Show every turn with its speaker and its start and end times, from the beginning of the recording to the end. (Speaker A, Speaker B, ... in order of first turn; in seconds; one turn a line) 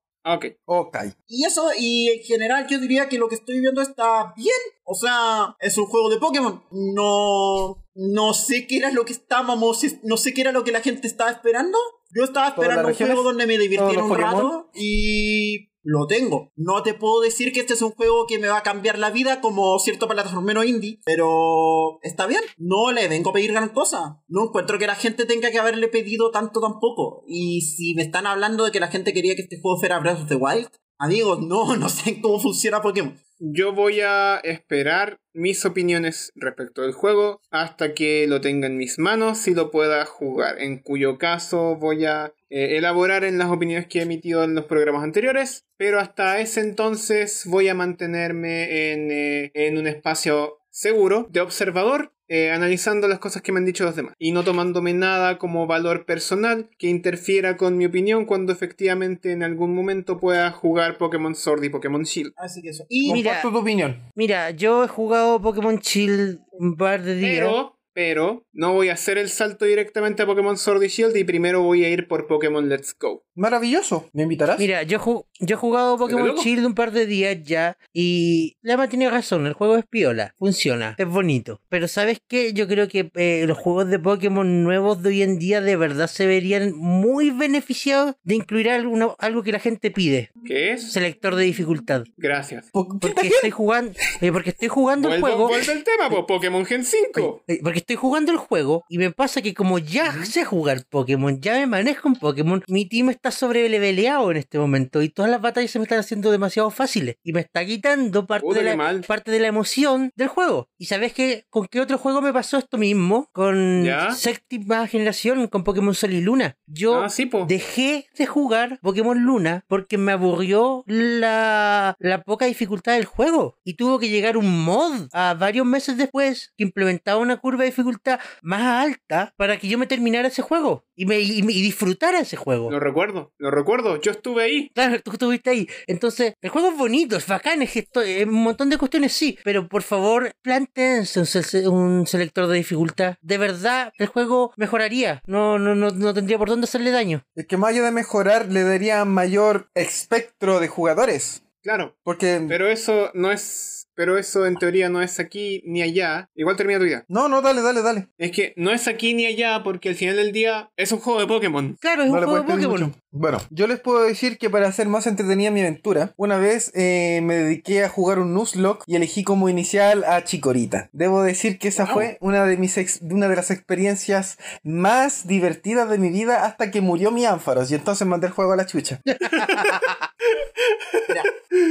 Speaker A: 0.2-0.5
Speaker B: 0.7-1.1
Speaker C: 1.3-33.2
Speaker B: 12.6-14.5
Speaker A: 33.4-62.3
Speaker C: 62.4-63.2
Speaker B: 63.0-64.0
Speaker D: 63.0-63.5
Speaker D: 64.2-67.6
Speaker A: 67.2-73.2
Speaker B: 73.4-74.7
Speaker D: 74.6-90.3
Speaker A: 76.0-76.5
Speaker A: 90.4-90.9
Speaker D: 90.9-92.1
Speaker A: 92.2-92.7
Speaker B: 92.7-93.5
Speaker D: 93.0-95.6
Speaker A: 95.0-97.4
Speaker D: 97.2-132.7
Speaker A: 108.4-109.0
Speaker A: 113.8-114.2
Speaker A: 116.9-117.5
Speaker A: 132.7-134.7
Speaker D: 134.8-147.2
Speaker B: 147.3-151.4
Speaker A: 151.6-151.9
Speaker B: 152.1-152.6
Speaker A: 152.5-157.0
Speaker B: 157.1-158.1
Speaker A: 158.2-161.8
Speaker D: 161.8-162.9
Speaker B: 162.1-179.0
Speaker A: 171.8-172.1
Speaker D: 179.1-180.0
Speaker A: 179.2-181.0